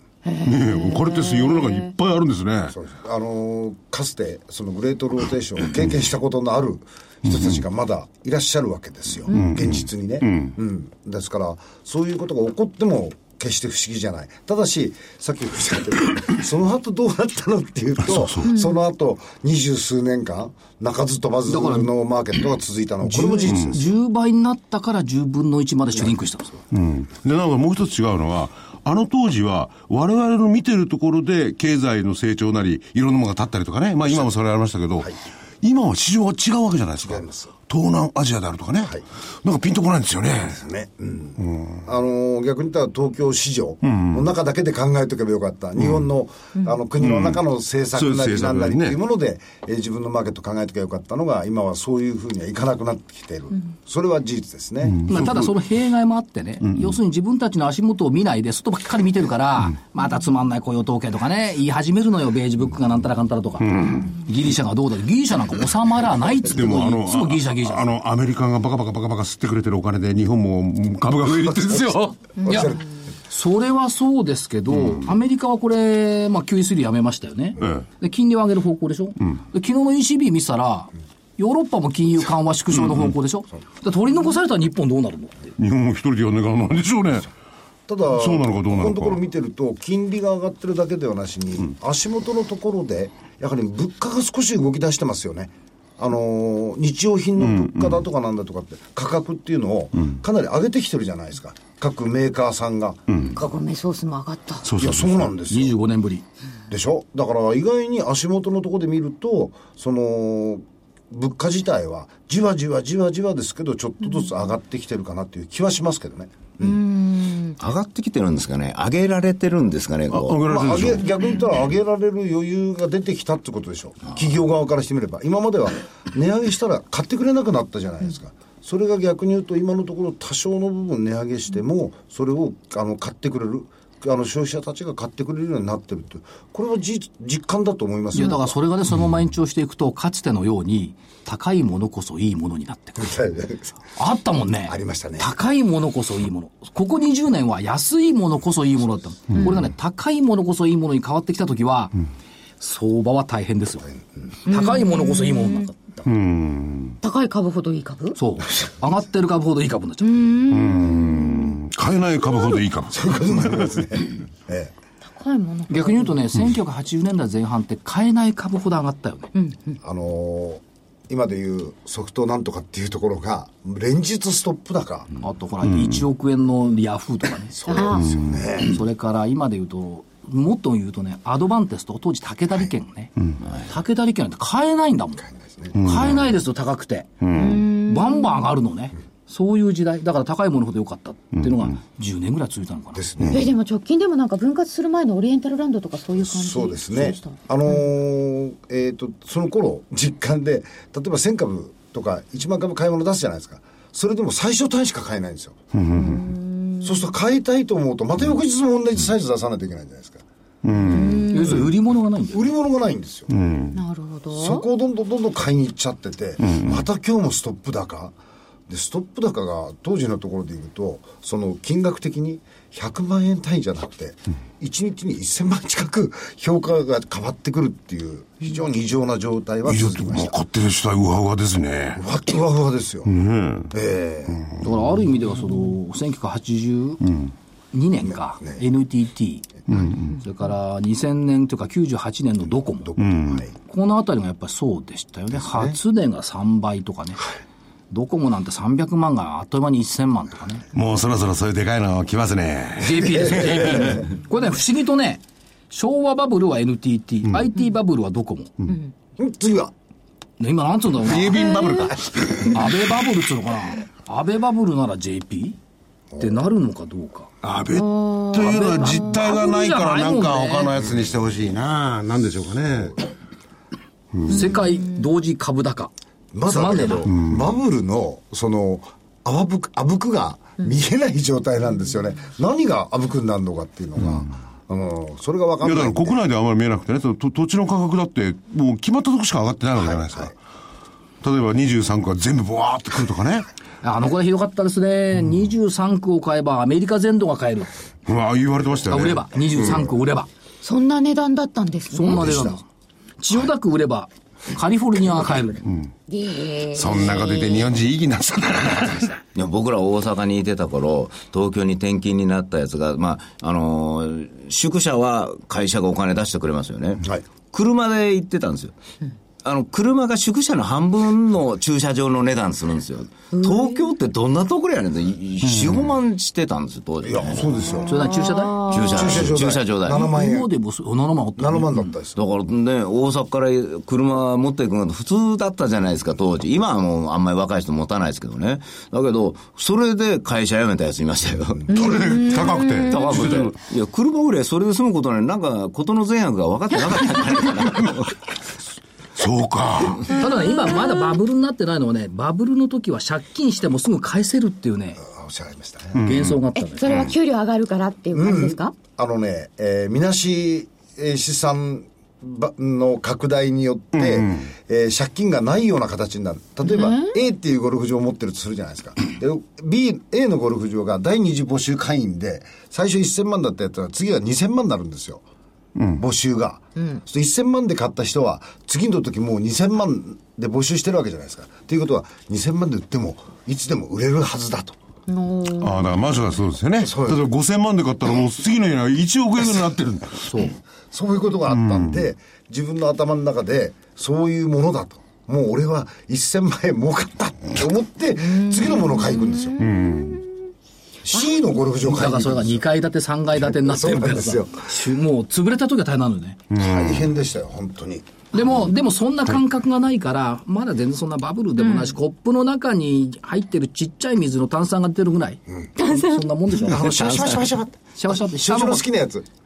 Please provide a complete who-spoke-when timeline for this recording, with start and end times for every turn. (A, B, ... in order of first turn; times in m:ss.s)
0:00.2-0:01.9 A
0:00.4-0:02.8 B
0:02.7-0:23.9 C
0:09.3-0:10.6 B
0:18.1-0:18.4 B
0:18.5-0:18.8 A
0:21.5-0:21.9 D
0:23.0-0:26.6 D
0:23.5-0:23.7 B
0:26.7-0:40.6 B
0:37.0-0:37.5 C
0:40.5-0:55.0 C
0:41.4-0:41.8 B
0:43.8-0:44.2 B
0:47.0-0:47.4 B
0:48.0-0:49.0 B
0:54.9-0:55.5 B
0:55.1-1:07.9 D
1:03.6-1:04.1 B
1:06.4-1:12.3 B
1:11.5-1:11.8 C
1:12.4-1:12.8 C
1:12.4-1:12.8 A
1:12.5-1:12.7 D
1:13.3-1:25.5 D
1:17.6-1:17.9 B
1:25.6-1:27.3 B
1:27.9-1:43.0 C
1:28.1-1:29.2 B
1:37.4-1:38.0 B
1:43.1-1:43.4 B
1:43.4-1:44.7 A
1:44.6-1:45.3 B
1:44.8-1:45.8 C
1:45.5-1:46.2 D
1:46.7-1:56.8 C
1:56.6-1:57.6 A
1:57.6-2:00.4 E
2:00.1-2:01.1 B
2:00.5-2:18.6 C
2:18.1-2:23.1 D
2:23.0-2:23.7 C
2:24.0-2:32.0 D
2:24.6-2:25.3 C
2:32.6-2:33.9 D
2:34.4-2:36.1 D
2:34.5-2:35.7 A
2:36.0-2:37.0 B
2:37.0-2:38.2 A
2:38.2-2:40.1 D
2:40.0-2:41.6 A
2:40.5-2:43.8 B
2:42.9-2:44.7 C
2:45.1-2:46.3 A
2:45.7-2:49.3 D
2:49.4-2:49.8 A
2:49.8-2:55.1 C
2:55.2-2:57.9 D
2:57.5-2:58.8 C
2:57.7-2:58.1 A
2:58.2-2:58.4 B
2:58.6-3:03.1 D
3:03.7-3:05.2 D
3:05.2-3:05.8 C
3:05.8-3:06.2 B
3:05.8-3:13.0 D
3:07.2-3:07.6 B
3:07.4-3:08.4 A
3:12.9-3:13.5 C
3:13.3-3:17.8 A
3:16.2-3:25.6 C
3:25.7-3:26.2 B
3:25.9-3:27.0 A
3:26.8-3:30.2 C
3:30.6-3:31.3 B
3:30.8-3:31.6 A
3:31.3-3:32.5 D
3:32.3-3:33.3 C
3:33.3-3:33.8 B
3:33.8-3:34.6 A
3:34.3-3:38.2 C
3:36.5-3:36.8 B
3:38.7-3:50.3 C
3:49.7-3:52.0 B
3:52.0-3:53.1 C
3:53.1-3:53.7 B
3:53.7-3:54.5 C
3:54.6-3:57.0 D
3:57.7-3:59.6 D
3:58.0-3:58.6 C
3:59.7-4:00.2 B
4:00.2-4:03.0 D
4:02.8-4:03.5 C
4:03.0-4:03.4 B
4:03.7-4:07.3 D
4:05.4-4:05.8 C
4:07.9-4:10.6 D
4:10.7-4:14.0 B
4:12.8-4:18.5 D
4:18.7-4:18.9 A
4:19.2-4:19.7 C
4:20.4-4:21.5 D
4:21.0-4:22.7 B
4:21.4-4:21.9 A
4:22.5-4:25.6 D
4:26.1-4:26.4 C
4:26.2-4:27.3 D
4:27.4-4:33.0 B
4:27.7-4:29.3 A
4:28.4-4:30.7 D
4:34.1-4:34.5 B
4:34.3-4:34.9 A
4:34.3-4:35.9 D
4:36.3-4:46.2 C
4:36.5-4:37.1 D
4:37.1-4:37.4 B
4:45.6-4:50.4 B
4:49.8-4:50.3 C
4:51.2-4:53.5 B
4:53.8-4:57.8 D
4:58.1-4:59.8 B
4:58.9-5:00.3 D
5:00.6-5:02.3 A
5:01.9-5:02.6 D
5:02.1-5:02.6 C
5:03.2-5:05.6 D
5:05.6-5:05.9 B
5:06.1-5:07.7 A
5:06.7-5:09.2 B
5:09.4-5:18.7 E
5:19.4-5:27.7 E
5:23.3-5:23.9 A
5:25.4-5:25.9 B
5:27.0-5:28.1 C
5:27.6-5:29.2 A
5:27.9-5:28.9 D
5:28.7-5:30.0 E
5:28.8-5:30.5 C
5:29.9-5:31.9 D
5:31.4-5:32.2 C
5:32.2-5:41.7 E
5:41.7-5:42.0 C
5:41.7-5:43.2 A
5:41.8-5:43.5 B
5:42.9-5:48.2 E
5:49.2-5:50.2 B
5:50.1-5:55.0 D
5:50.3-5:51.1 A
5:55.0-5:56.0 C
5:56.0-5:56.4 B
5:56.0-5:57.1 D
5:56.6-5:58.7 A
5:58.1-6:15.2 C
6:04.0-6:04.5 B
6:06.6-6:07.2 A
6:15.8-6:16.0 B
6:16.0-6:24.8 C
6:16.8-6:17.0 A
6:25.1-6:26.0 A
6:25.6-6:30.4 B
6:26.8-6:27.3 C
6:30.3-6:30.6 D
6:30.9-6:39.6 C
6:31.5-6:32.0 B
6:38.2-6:40.3 A
6:39.6-6:40.2 B
6:41.0-6:42.7 C
6:41.1-6:41.6 A
6:41.8-6:46.4 D
6:43.4-6:44.7 C
6:46.5-6:47.1 B
6:46.6-6:48.1 C
6:48.3-6:58.8 D
6:51.6-6:52.0 A
6:55.8-6:56.3 A
6:56.6-6:59.3 C